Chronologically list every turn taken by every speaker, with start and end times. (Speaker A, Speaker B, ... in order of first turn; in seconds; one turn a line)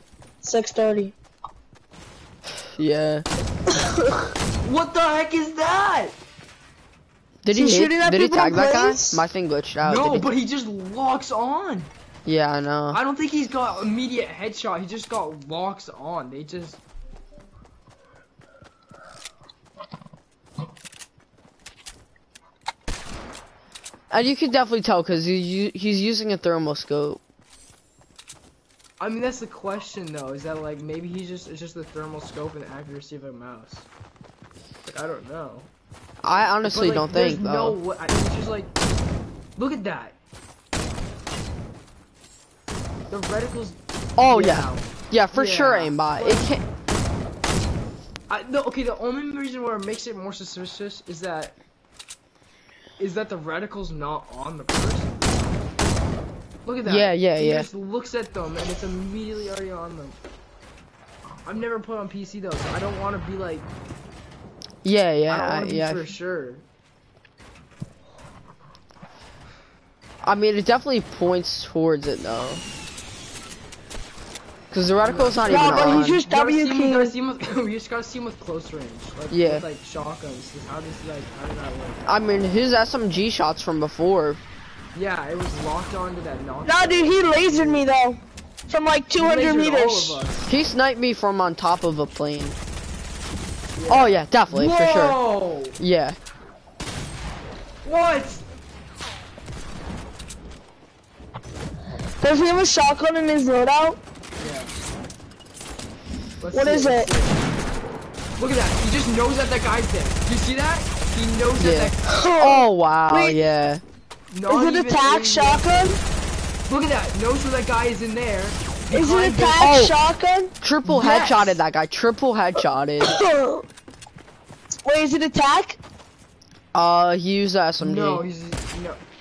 Speaker A: 0.4-1.1
Speaker B: 2.8-3.2
Speaker C: 4.6-6.2
Speaker B: 7.4-10.3
Speaker A: 7.5-9.2
Speaker C: 9.8-11.9
Speaker B: 12.2-13.0
Speaker C: 12.9-16.8
Speaker B: 24.1-27.2
Speaker C: 29.0-33.9
Speaker C: 34.8-35.7
Speaker B: 36.2-37.8
Speaker C: 36.3-38.7
Speaker C: 39.5-40.1
Speaker C: 43.1-46.5
Speaker B: 44.2-46.6
Speaker C: 48.3-51.6
Speaker C: 53.0-55.5
Speaker C: 56.6-60.2
Speaker B: 56.8-57.7
Speaker C: 61.4-63.7
Speaker B: 64.8-66.1
Speaker C: 65.3-66.7
Speaker B: 70.2-72.6
Speaker B: 74.7-76.2
Speaker C: 75.0-82.1
Speaker A: 75.4-77.1
Speaker B: 79.3-79.7
Speaker B: 82.0-84.4
Speaker C: 84.9-87.9
Speaker A: 86.6-90.2
Speaker C: 89.2-90.5
Speaker B: 90.5-92.5
Speaker C: 93.7-95.8
Speaker B: 93.9-95.2
Speaker B: 95.8-96.2
Speaker C: 97.8-98.4
Speaker A: 102.2-104.0
Speaker C: 104.4-104.7
Speaker C: 106.4-107.4
Speaker A: 106.5-107.1
Speaker C: 108.4-112.0
Speaker B: 111.6-113.8
Speaker A: 112.0-113.5
Speaker C: 114.3-116.0
Speaker A: 114.5-116.0
Speaker C: 116.7-119.6
Speaker A: 118.9-120.5
Speaker B: 119.6-119.9
Speaker B: 120.6-123.1
Speaker C: 120.8-121.6
Speaker A: 123.0-123.6
Speaker A: 124.8-125.8
Speaker B: 126.7-128.2
Speaker C: 127.8-129.0